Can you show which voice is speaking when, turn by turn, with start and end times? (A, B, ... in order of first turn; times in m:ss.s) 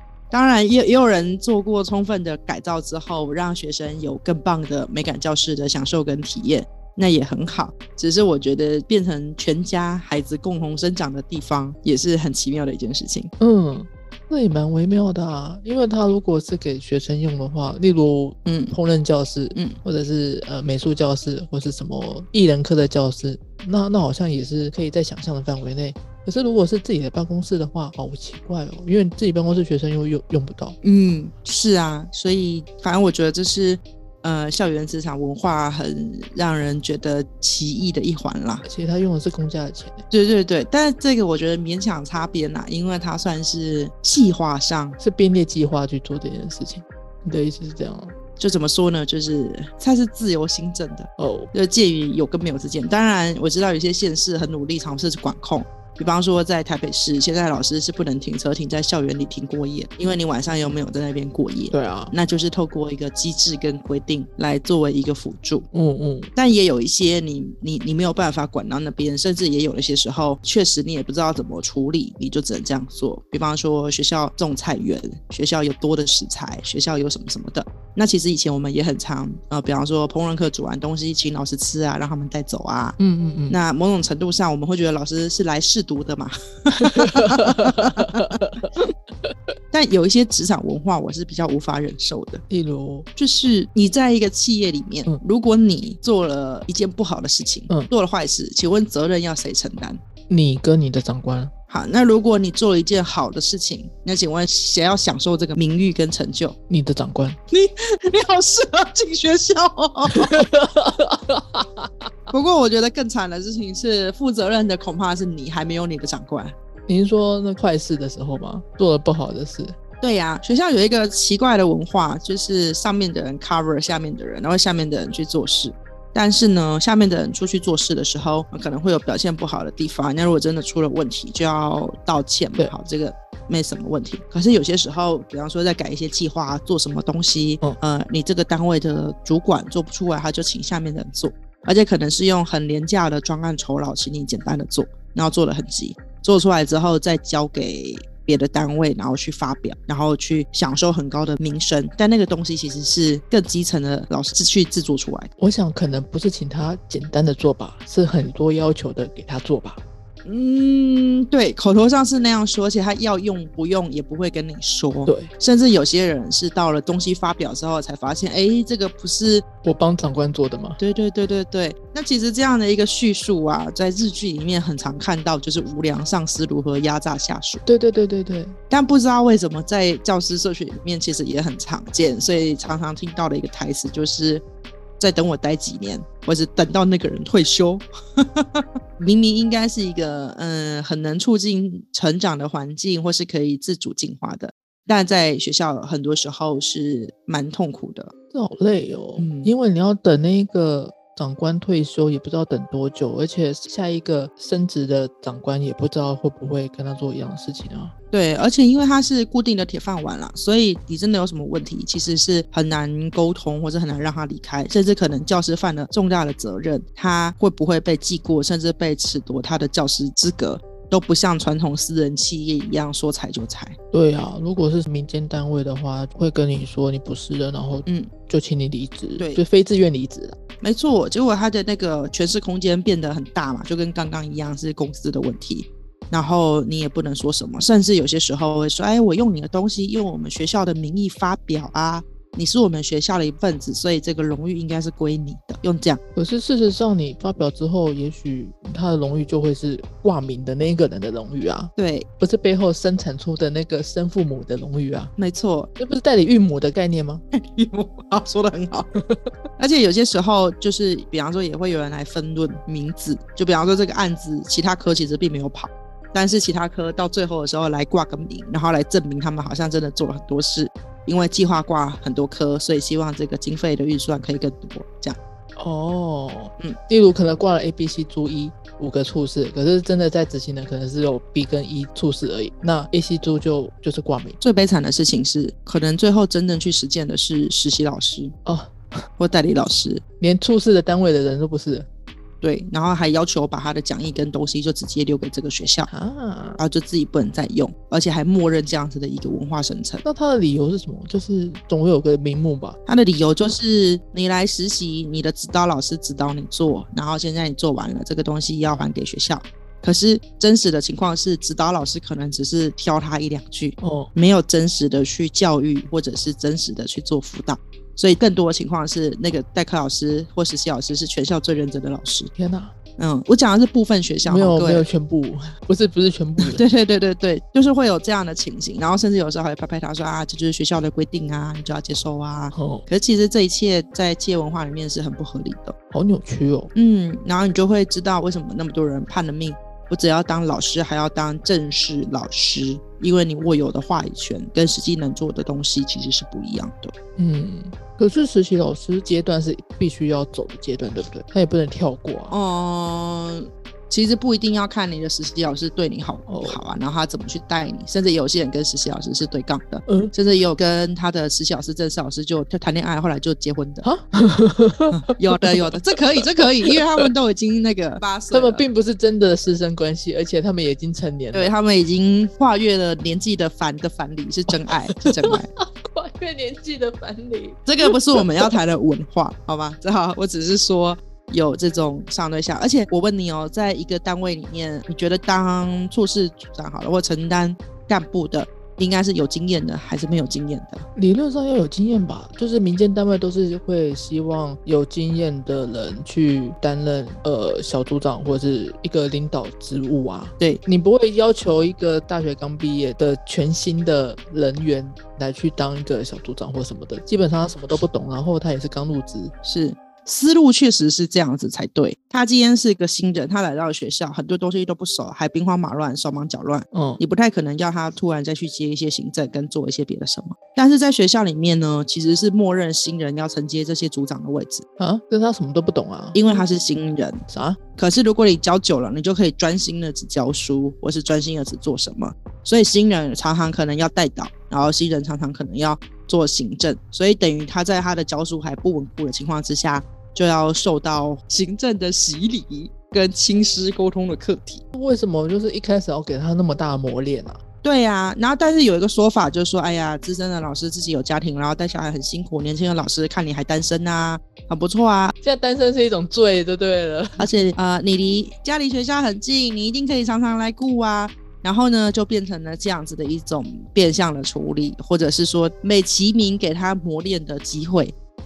0:00.3-0:13.3 A
0:13.4-0:30.8 B
0:18.4-0:18.8 A
0:30.8-0:38.6 A
0:38.6-0:40.0 B
0:40.1-0:45.0 A
0:45.0-0:48.1 B
0:48.4-1:05.7 A
0:51.2-0:51.5 B
1:01.7-1:02.1 B
1:05.7-1:06.3 B
1:06.3-1:23.0 A
1:23.0-1:23.6 B
1:23.5-1:28.9 A
1:27.2-1:28.7 B
1:29.7-1:32.4 A
1:32.5-1:33.1 B
1:33.2-1:40.0 A
1:40.3-1:41.5 B
1:41.7-1:46.6 A
1:46.7-1:47.4 B
1:47.5-1:50.4 A
1:50.1-1:52.3 B
1:52.3-1:56.5 A
1:56.9-1:59.8 B
2:00.0-2:35.3 A
2:35.4-2:39.8 B
2:40.2-2:49.4 A
2:45.0-2:45.3 B
2:49.6-2:50.8 B
2:50.8-2:57.6 A
2:57.6-2:58.6 B
2:58.7-3:04.4 A
3:05.0-3:18.1 A
3:18.3-3:27.9 B
3:19.2-3:19.5 A
3:28.1-3:43.8 A
3:43.9-3:50.4 B
3:47.8-3:48.1 A
3:49.2-3:49.4 A
3:50.6-4:06.0 A
4:06.2-4:15.1 B
4:11.8-4:12.1 A
4:15.2-4:15.7 A
4:15.8-4:17.2 B
4:17.3-4:18.9 A
4:19.6-4:35.2 A
4:35.6-4:44.4 B
4:44.4-4:48.3 A
4:48.4-4:48.9 B
4:49.2-4:50.0 A
4:50.2-4:51.9 B
4:52.4-4:55.9 A
4:55.9-4:56.6 B
4:56.6-5:00.0 A
5:00.0-5:02.8 B
5:02.8-5:22.3 A
5:13.8-5:14.1 B
5:22.4-5:22.7 B
5:23.0-5:24.9 A
5:24.2-5:26.6 B
5:26.4-5:35.7 A
5:32.5-5:32.9 B
5:35.9-5:36.7 B
5:36.7-5:46.9 A
5:47.2-5:52.3 B
5:52.3-6:03.8 A
5:56.3-5:56.6 B
5:59.9-6:00.1 B
6:03.8-6:05.6 B
6:04.9-6:08.6 A
6:06.7-6:07.0 B
6:08.3-6:11.5 B
6:11.3-6:15.5 A
6:15.0-6:18.5 B
6:17.7-6:30.8 A
6:31.0-6:49.3 B
6:49.4-7:04.6 A
6:56.7-6:57.0 B
7:04.8-7:06.4 B
7:06.1-7:07.2 A
7:07.3-7:07.6 B
7:07.8-7:24.6 A
7:24.7-7:27.4 B
7:27.6-7:35.1 A
7:35.2-7:37.5 B
7:37.2-7:47.9 A